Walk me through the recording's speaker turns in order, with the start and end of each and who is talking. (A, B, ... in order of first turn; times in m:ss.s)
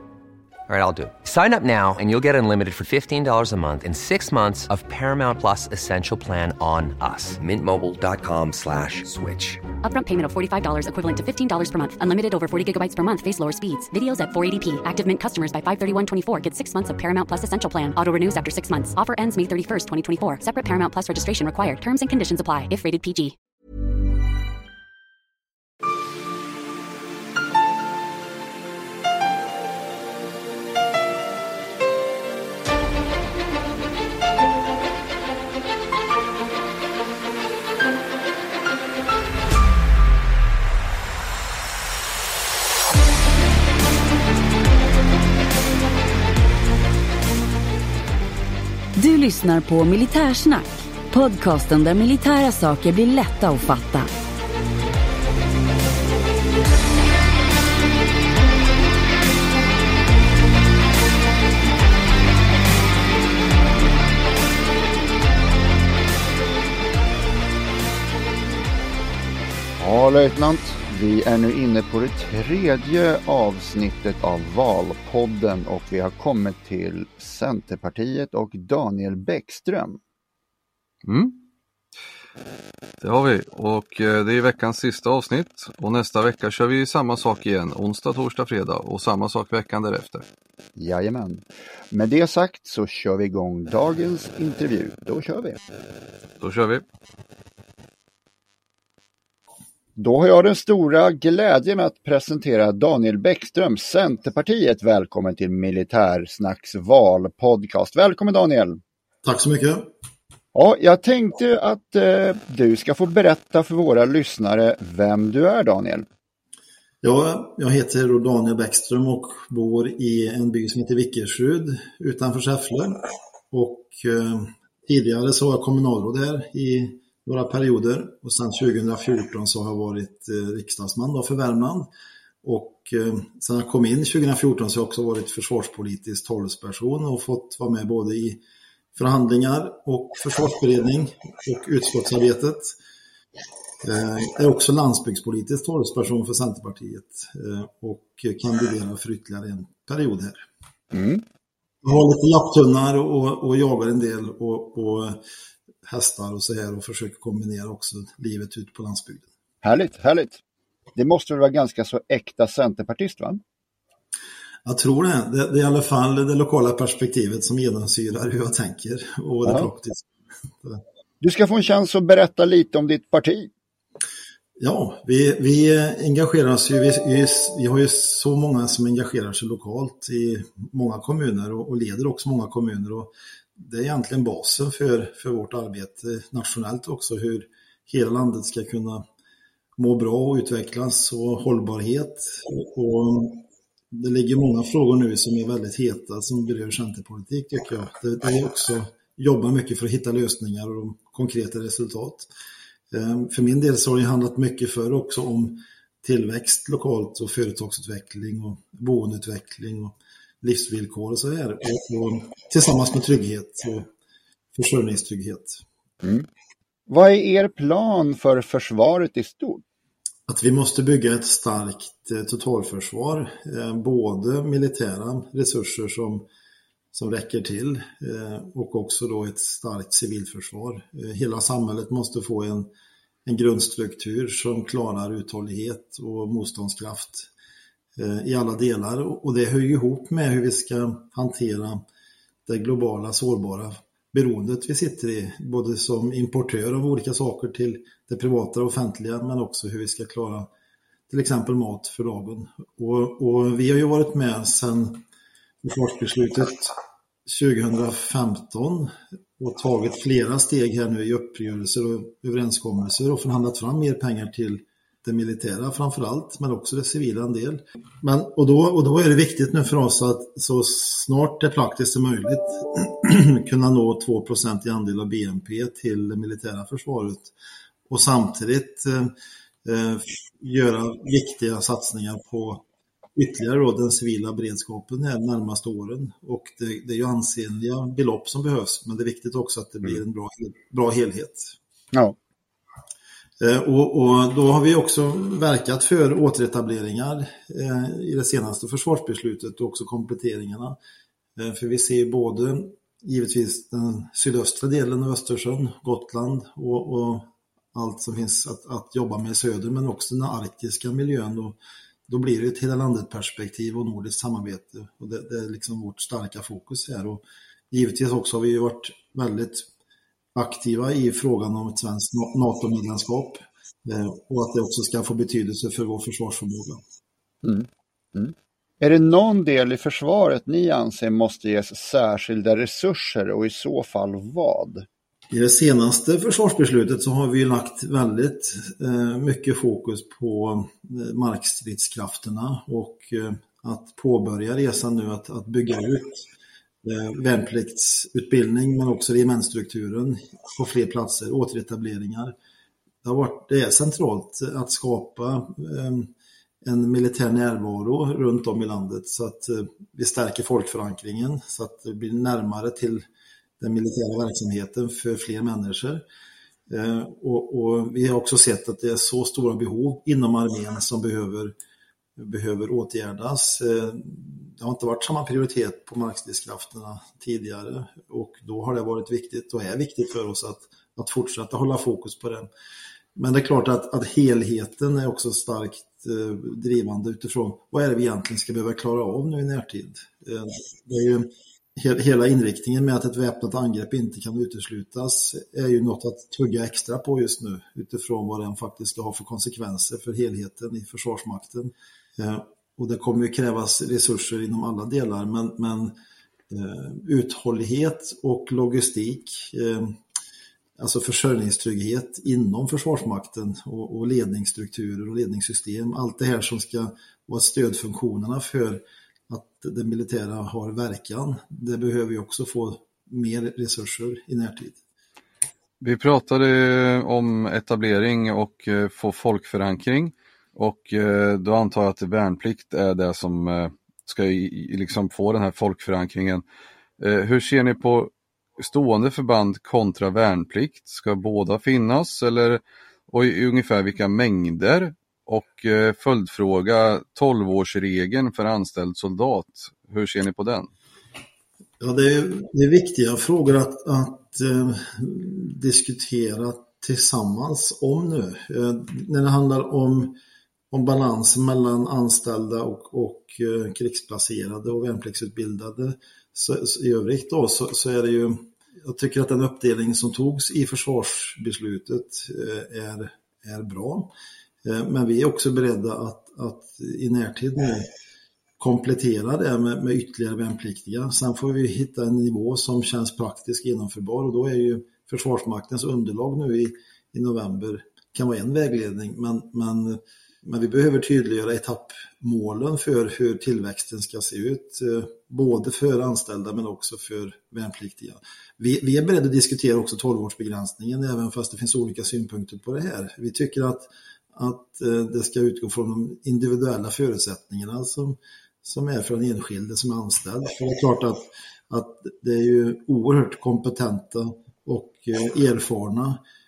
0:00.7-0:09.6 A
0:09.8-0:23.4 B
0:49.0-0:54.1 C
1:09.8-1:20.0 D
1:21.0-1:21.4 E
1:23.0-1:30.2 E
1:30.8-1:35.6 D
1:36.4-1:36.8 E
1:40.0-1:48.8 D
1:49.2-1:49.9 F
1:50.5-1:56.0 D
1:57.0-2:11.9 F
2:12.4-2:18.4 F
2:18.9-2:22.7 F
2:23.8-2:30.4 F
2:30.9-2:31.2 D
2:31.8-2:35.2 F
2:35.8-2:39.2 F
2:39.6-2:40.4 D
2:41.0-2:43.4 D
2:44.6-2:50.0 F
2:51.2-2:53.5 D
2:54.6-3:09.0 F
3:09.8-3:22.3 F
3:22.9-3:33.9 F
3:34.5-3:35.6 F
3:36.9-3:39.6 D
3:40.3-3:46.2 F
3:46.9-3:52.7 F
3:53.2-3:57.3 F
3:58.0-4:01.8 F
4:02.5-4:10.5 F
4:11.1-4:15.0 F
4:15.6-4:16.7 F
4:17.3-4:37.3 F
4:37.9-4:39.1 F
4:39.6-4:42.6 F
4:43.2-4:51.5 F
4:53.4-5:00.8 F
5:01.4-5:11.6 F
5:12.1-5:19.6 F
5:20.3-5:26.8 F
5:27.4-5:34.8 D
5:35.3-5:46.2 F
5:46.8-5:52.3 F
5:53.0-5:56.1 F
5:56.6-6:03.0 F
6:03.6-6:06.0 F
6:06.7-6:11.5 F
6:12.2-6:22.5 F
6:23.2-6:45.9 F
6:46.5-6:50.0 F
6:50.8-7:04.8 F
7:05.8-7:16.4 E
7:17.0-7:30.7 E
7:31.8-7:40.2 F
7:40.7-7:54.1 F
7:54.6-7:57.9 F
7:58.6-8:36.2 F